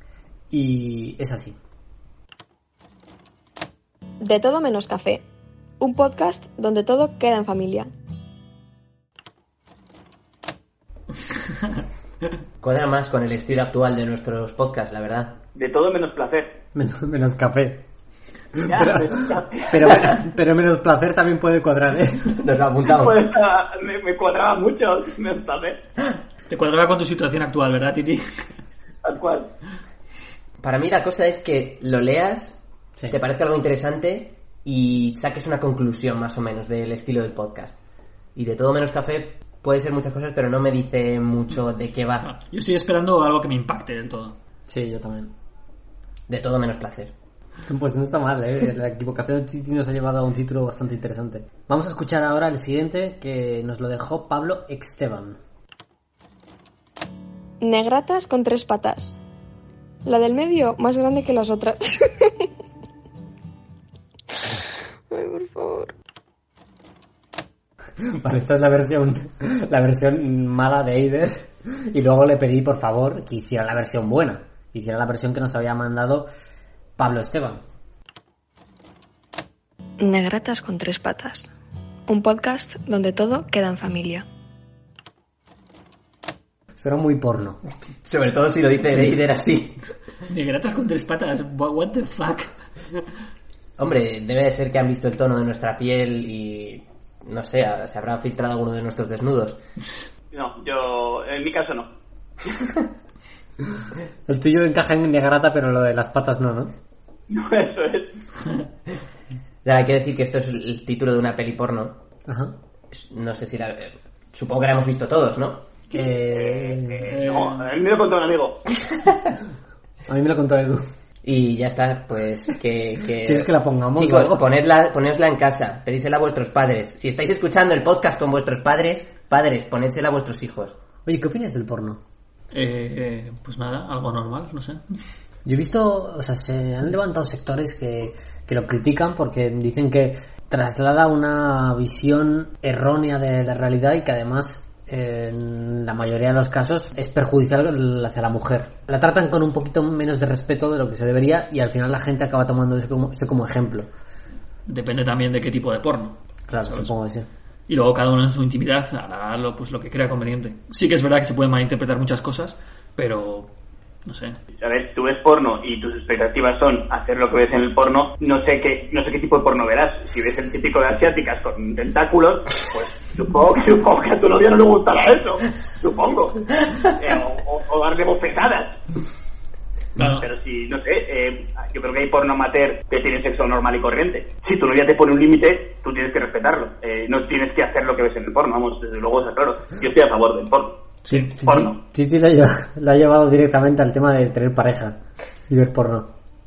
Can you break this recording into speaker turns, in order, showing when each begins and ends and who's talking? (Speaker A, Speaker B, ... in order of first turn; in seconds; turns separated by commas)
Speaker A: 0.5-1.6, Speaker B: 4.2-5.2, Speaker B: 5.8-7.9, Speaker C: 12.6-15.4, Speaker D: 15.5-16.6, Speaker A: 16.7-17.8, Speaker A: 18.6-22.3, Speaker D: 18.6-19.9, Speaker C: 22.3-23.2, Speaker D: 22.9-25.8, Speaker E: 26.5-28.4, Speaker D: 29.0-29.5, Speaker C: 30.6-32.6, Speaker C: 33.1-37.8, Speaker C: 38.3-42.3, Speaker E: 42.2-44.4, Speaker A: 44.7-45.3, Speaker C: 46.3-47.1, Speaker A: 47.6-55.4, Speaker B: 57.6-59.2, Speaker B: 60.0-62.5, Speaker B: 65.1-65.9, Speaker A: 68.0-76.3, Speaker A: 77.0-77.6, Speaker B: 80.0-81.5, Speaker B: 82.1-84.2, Speaker A: 86.8-87.6, Speaker C: 88.0-89.8, Speaker E: 90.3-92.5, Speaker C: 93.8-99.6, Speaker D: 100.3-101.9, Speaker A: 104.3-106.7, Speaker D: 107.3-108.1, Speaker C: 109.6-112.0, Speaker A: 112.3-112.5, Speaker C: 112.9-115.7, Speaker A: 115.9-117.1, Speaker D: 116.3-118.6, Speaker E: 117.1-117.7, Speaker A: 120.1-120.9, Speaker C: 121.2-130.7, Speaker A: 123.2-124.5, Speaker A: 131.0-132.0, Speaker E: 132.5-134.8, Speaker A: 135.4-153.9, Speaker E: 154.7-156.9, Speaker A: 156.5-157.3, Speaker E: 157.7-163.5, Speaker E: 164.0-164.4, Speaker D: 164.6-178.8, Speaker E: 180.0-180.2, Speaker D: 180.0-190.8, Speaker E: 191.1-191.3, Speaker A: 191.1-195.0, Speaker D: 191.4-191.8, Speaker A: 195.5-196.1